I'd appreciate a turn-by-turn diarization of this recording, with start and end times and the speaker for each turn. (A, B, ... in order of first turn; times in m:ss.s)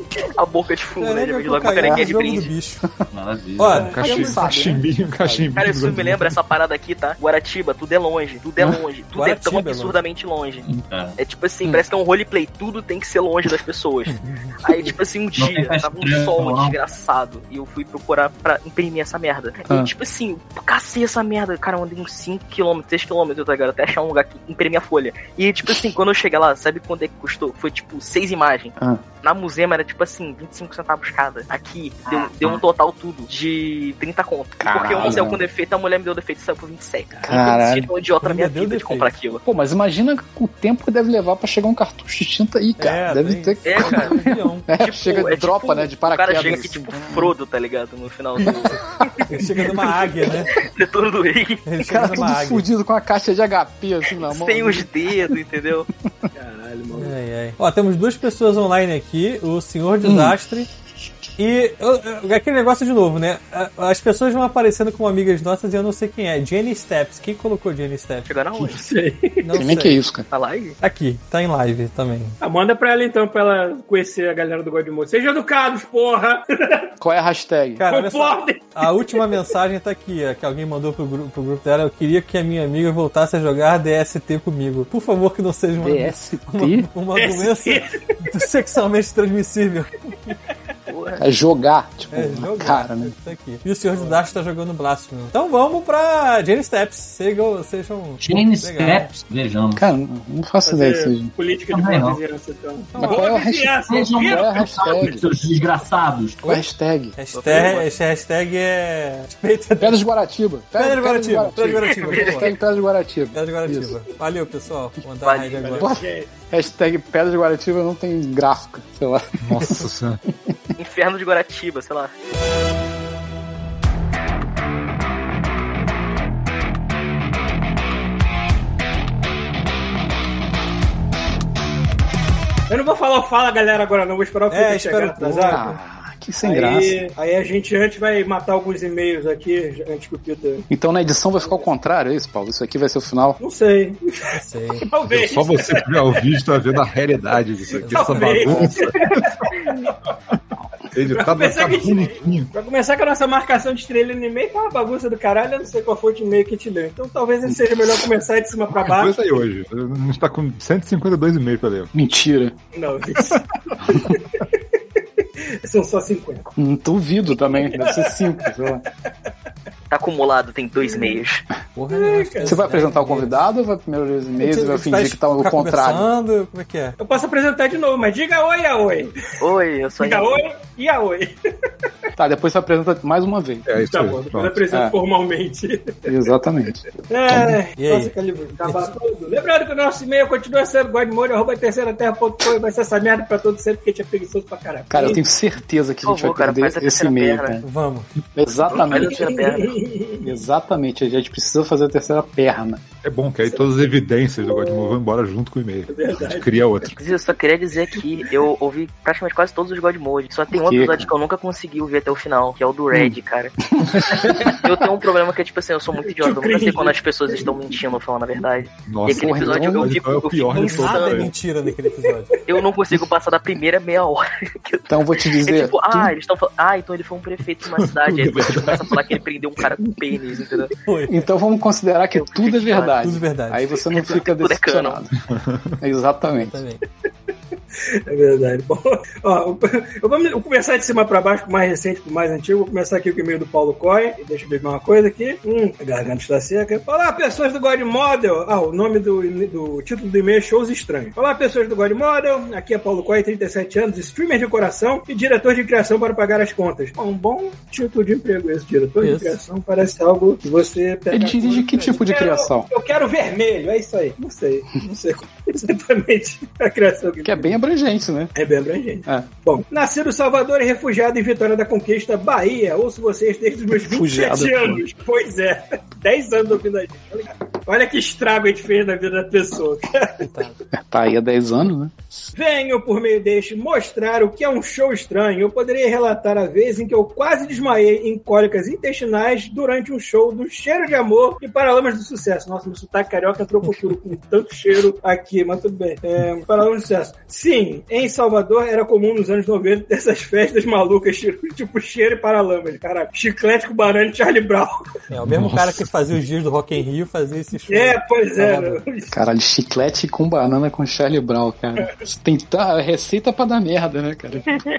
0:00.3-0:02.5 A
0:01.0-0:02.8 B
0:01.8-0:02.1 C
0:03.1-0:03.9 D
0:03.6-0:04.5 B
0:03.7-0:04.3 E
0:03.8-0:06.4 F
0:04.0-0:05.5 C
0:05.6-0:10.7 A
0:09.2-0:10.0 B
0:10.7-0:11.2 D
0:11.2-0:39.4 A
0:14.1-0:14.6 B
0:15.4-0:16.8 D
0:28.8-0:29.0 C
0:32.1-0:32.6 D
0:34.6-0:35.4 C
0:37.3-0:37.9 C
0:38.2-0:39.1 B
0:39.4-0:47.3 C
0:42.8-0:44.7 B
0:43.6-0:44.1 A
0:44.8-0:48.9 A
0:48.4-0:49.1 C
0:49.3-0:50.5 B
0:50.5-0:51.6 A
0:51.7-0:52.6 B
0:51.8-0:55.4 C
0:54.2-0:55.9 A
0:56.4-0:57.2 E
0:57.0-1:00.7 B
1:00.0-1:00.4 C
1:01.4-1:08.3 B
1:08.3-1:08.8 A
1:08.6-1:09.6 E
1:09.4-1:10.0 B
1:09.6-1:10.3 C
1:10.3-1:10.8 A
1:10.8-1:12.4 B
1:12.4-1:16.9 E
1:17.0-1:17.8 C
1:17.8-1:30.4 B
1:17.9-1:19.2 E
1:25.8-1:26.9 C
1:27.2-1:28.0 E
1:30.9-1:31.2 A
1:31.2-1:33.2 C
1:32.1-1:39.1 B
1:34.0-1:34.2 E
1:38.2-1:39.9 D
1:39.8-1:41.3 C
1:40.7-1:45.2 E
1:41.7-1:42.2 D
1:42.9-1:43.3 B
1:43.0-1:45.3 C
1:43.9-1:46.6 D
1:46.4-1:47.2 C
1:47.2-1:50.0 B
1:47.3-1:47.9 A
1:49.8-1:54.0 C
1:50.8-1:52.5 B
1:51.9-1:52.5 A
1:53.3-1:56.0 B
1:55.2-1:55.7 A
1:55.6-1:56.3 E
1:55.8-1:59.8 C
1:59.4-2:00.2 F
2:00.8-2:02.1 A
2:12.7-2:15.6 E
2:14.5-2:15.8 B
2:15.5-2:17.0 C
2:16.4-2:20.7 E
2:20.7-2:23.4 C
2:21.4-2:21.7 E
2:23.4-2:26.4 E
2:24.3-2:24.8 B
2:25.1-2:29.4 F
2:27.7-2:29.9 E
2:27.8-2:28.4 B
2:30.9-2:32.5 F
2:31.0-2:39.2 E
2:37.5-2:37.9 C
2:38.8-2:41.9 F
2:41.9-2:42.6 C
2:42.7-2:44.6 E
2:45.2-2:46.5 E
2:46.6-2:48.8 C
2:47.7-2:48.5 E
2:49.9-2:51.4 A
2:50.8-2:51.2 E
2:51.8-2:53.4 B
2:51.9-2:52.7 E
2:52.4-2:56.1 C
2:54.4-2:57.0 B
2:57.0-2:59.2 E
2:59.4-3:00.4 A
3:00.0-3:01.3 E
3:02.2-3:03.7 C
3:03.6-3:04.6 F
3:03.8-3:06.1 E
3:06.1-3:07.6 C
3:07.1-3:15.2 E
3:07.8-3:08.1 B
3:14.9-3:17.7 C
3:16.0-3:17.6 A
3:17.6-3:18.1 B
3:18.4-3:19.3 C
3:18.7-3:19.8 A
3:18.7-3:20.3 E
3:20.2-3:22.8 C
3:23.0-3:27.0 F
3:23.4-3:25.0 E
3:25.9-3:26.6 E
3:27.0-3:33.6 A
3:30.5-3:31.1 C
3:33.8-3:34.6 C
3:34.5-3:41.3 A
3:36.1-3:37.4 E
3:38.9-3:41.3 F
3:39.1-3:40.0 C
3:40.5-3:42.4 B
3:42.5-3:50.7 A
3:44.9-3:46.1 C
3:48.0-3:49.0 F
3:50.8-3:51.3 B
3:51.1-3:55.1 C
3:52.2-3:53.0 A
3:53.0-3:53.8 B
3:53.9-3:55.0 A
3:55.8-3:56.6 C
3:56.4-3:56.8 B
3:57.9-4:27.6 E
4:19.0-4:19.4 B
4:21.1-4:22.7 C
4:27.2-4:28.3 C
4:28.4-4:40.2 E
4:29.1-4:29.3 C
4:33.7-4:34.8 C
4:40.2-4:40.5 B
4:40.9-4:42.1 C
4:42.4-5:04.8 E
5:05.1-5:08.8 B
5:05.2-5:05.9 F
5:07.7-5:09.2 E
5:09.1-5:14.5 C